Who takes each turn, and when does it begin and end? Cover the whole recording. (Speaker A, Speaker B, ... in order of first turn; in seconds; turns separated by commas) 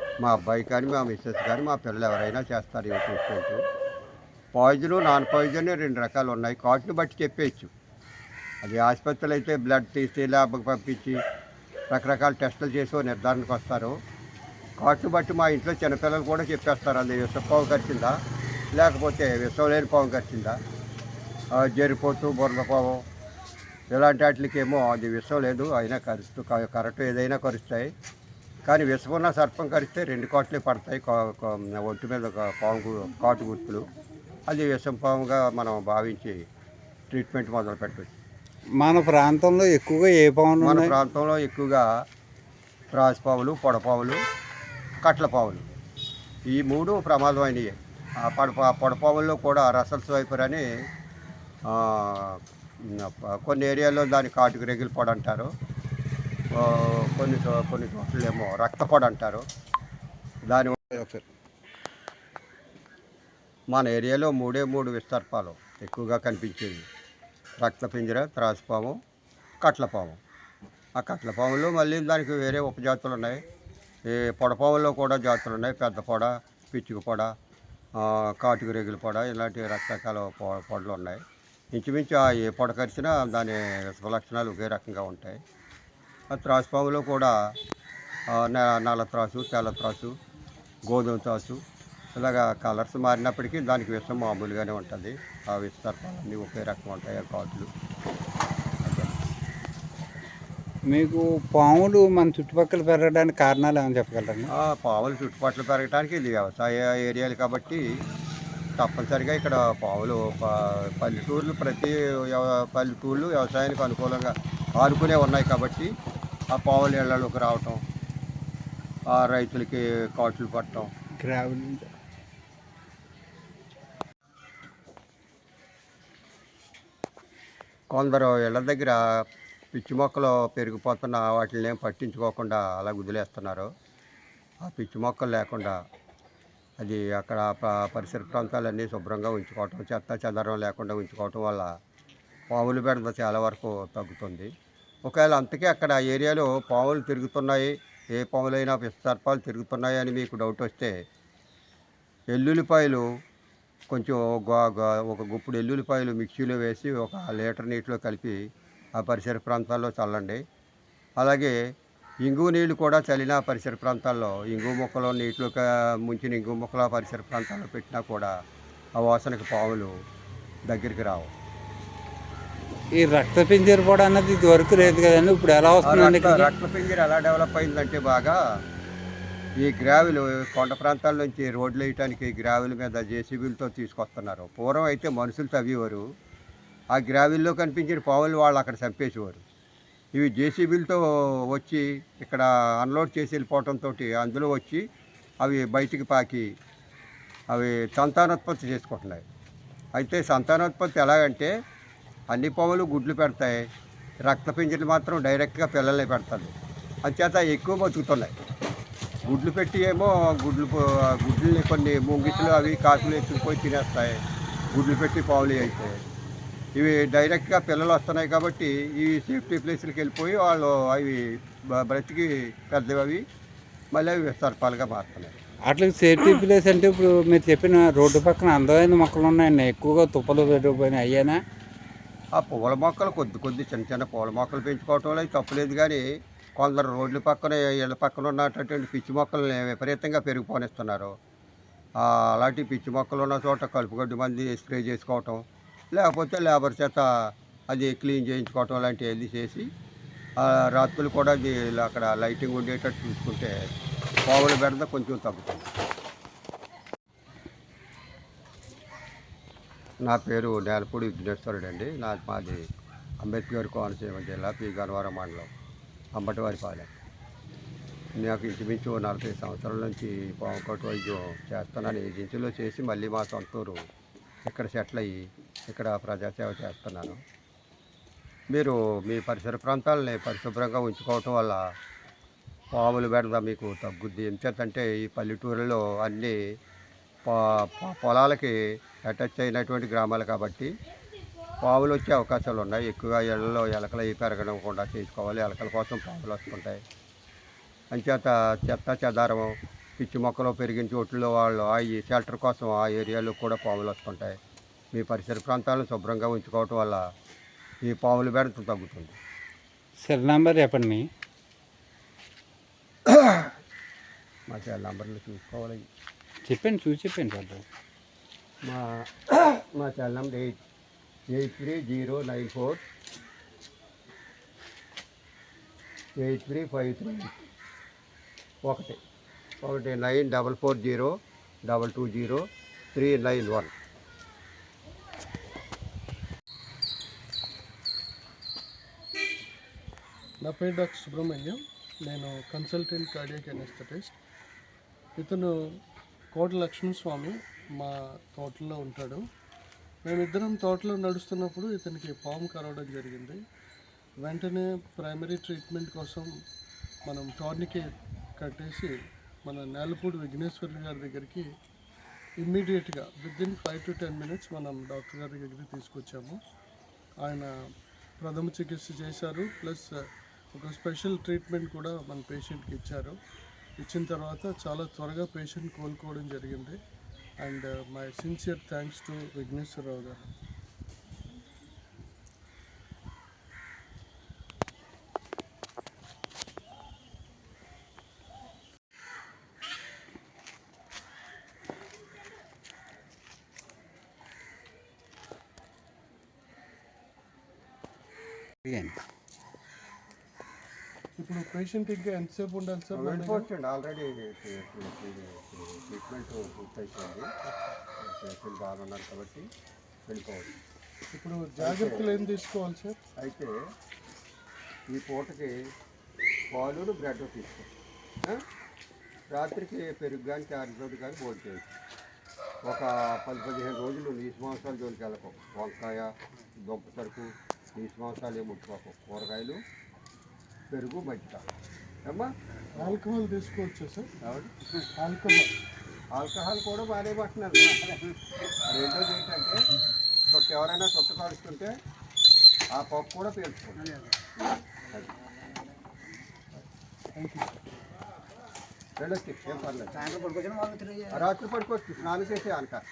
Speaker A: 0.2-3.6, Speaker A: 4.5-7.7, Speaker A: 8.6-11.2, Speaker A: 11.9-13.9, Speaker A: 14.8-18.1, Speaker A: 18.7-20.6, Speaker A: 21.6-23.0, Speaker A: 23.9-27.9, Speaker A: 28.6-33.9, Speaker A: 34.5-36.4, Speaker A: 37.1-38.1, Speaker B: 38.8-40.9, Speaker A: 40.6-41.9, Speaker A: 42.9-44.2, Speaker A: 45.0-45.7, Speaker A: 46.5-50.6, Speaker A: 51.7-55.5, Speaker A: 56.5-59.4, Speaker A: 60.5-61.0, Speaker B: 60.9-61.2, Speaker A: 63.7-66.8, Speaker A: 67.6-69.0, Speaker A: 69.6-70.2, Speaker A: 71.0-73.4, Speaker A: 74.0-77.3, Speaker A: 78.0-81.2, Speaker A: 81.7-85.4, Speaker A: 86.3-87.3, Speaker A: 88.3-90.1, Speaker A: 90.9-91.6, Speaker A: 92.1-97.7, Speaker A: 98.8-99.1, Speaker B: 100.9-104.5, Speaker A: 104.5-107.8, Speaker A: 108.8-115.9, Speaker A: 116.5-117.8, Speaker A: 119.1-120.9, Speaker B: 121.2-121.9, Speaker A: 127.9-133.7, Speaker A: 134.6-135.8, Speaker A: 136.8-141.7, Speaker A: 142.5-144.5, Speaker A: 145.1-150.9, Speaker A: 152.3-153.1, Speaker A: 153.9-158.4, Speaker A: 159.0-160.4, Speaker A: 161.2-161.5, Speaker A: 162.2-168.3, Speaker A: 169.0-169.9, Speaker A: 170.7-171.3, Speaker B: 172.9-176.5, Speaker A: 175.8-178.4, Speaker A: 179.6-186.0, Speaker A: 186.9-189.4, Speaker A: 190.1-194.8, Speaker A: 195.4-196.5, Speaker A: 197.5-199.2, Speaker A: 199.9-201.5, Speaker A: 202.3-203.6, Speaker A: 204.2-206.5, Speaker A: 207.1-208.3, Speaker A: 209.2-214.2, Speaker A: 214.7-216.0, Speaker A: 216.8-223.2, Speaker A: 223.9-225.3, Speaker B: 225.7-231.4, Speaker A: 232.3-236.0, Speaker A: 236.6-241.1, Speaker A: 242.0-245.4, Speaker A: 245.9-249.7, Speaker A: 250.4-253.6, Speaker A: 254.2-255.7, Speaker A: 260.0-262.6, Speaker A: 263.2-265.5, Speaker A: 266.1-266.9, Speaker A: 268.2-273.8, Speaker A: 274.4-277.2, Speaker A: 278.5-281.6, Speaker A: 282.7-286.4, Speaker A: 287.2-290.7, Speaker A: 291.6-296.8, Speaker A: 297.9-304.4, Speaker A: 304.9-307.0, Speaker A: 307.8-309.2, Speaker B: 310.0-311.1, Speaker A: 313.1-313.5, Speaker A: 314.5-315.8, Speaker B: 316.4-317.6, Speaker A: 318.6-320.6, Speaker A: 321.3-322.8, Speaker A: 326.2-327.3, Speaker A: 328.6-329.0, Speaker A: 329.6-331.1, Speaker A: 331.7-332.4, Speaker A: 332.9-333.7, Speaker C: 340.4-344.2, Speaker C: 345.2-345.5, Speaker C: 346.3-349.2, Speaker C: 350.0-353.4, Speaker C: 354.2-356.3, Speaker C: 357.0-358.9, Speaker C: 359.4-361.5, Speaker C: 362.4-366.4, Speaker C: 367.2-367.5, Speaker C: 368.2-370.0, Speaker C: 370.5-373.1, Speaker C: 373.8-376.8, Speaker C: 377.4-380.3, Speaker B: 398.6-398.9, Speaker C: 401.2-403.5, Speaker A: 402.9-407.3, Speaker A: 408.0-409.5, Speaker A: 410.1-410.5, Speaker C: 411.1-413.0, Speaker A: 411.6-412.1, Speaker A: 413.2-413.5, Speaker A: 414.9-415.5, Speaker A: 416.5-417.7, Speaker A: 419.3-421.7, Speaker A: 422.6-426.1, Speaker A: 426.6-429.6, Speaker A: 430.7-431.4, Speaker A: 432.1-433.0, Speaker C: 432.8-434.1, Speaker A: 434.2-434.5, Speaker C: 435.0-435.5, Speaker A: 436.1-437.8, Speaker D: 437.6-438.2, Speaker A: 438.7-439.6, Speaker A: 440.3-441.7, Speaker A: 442.7-443.9, Speaker D: 443.8-444.2, Speaker C: 447.1-447.5, Speaker A: 449.0-450.0, Speaker D: 449.9-451.3, Speaker A: 451.1-452.8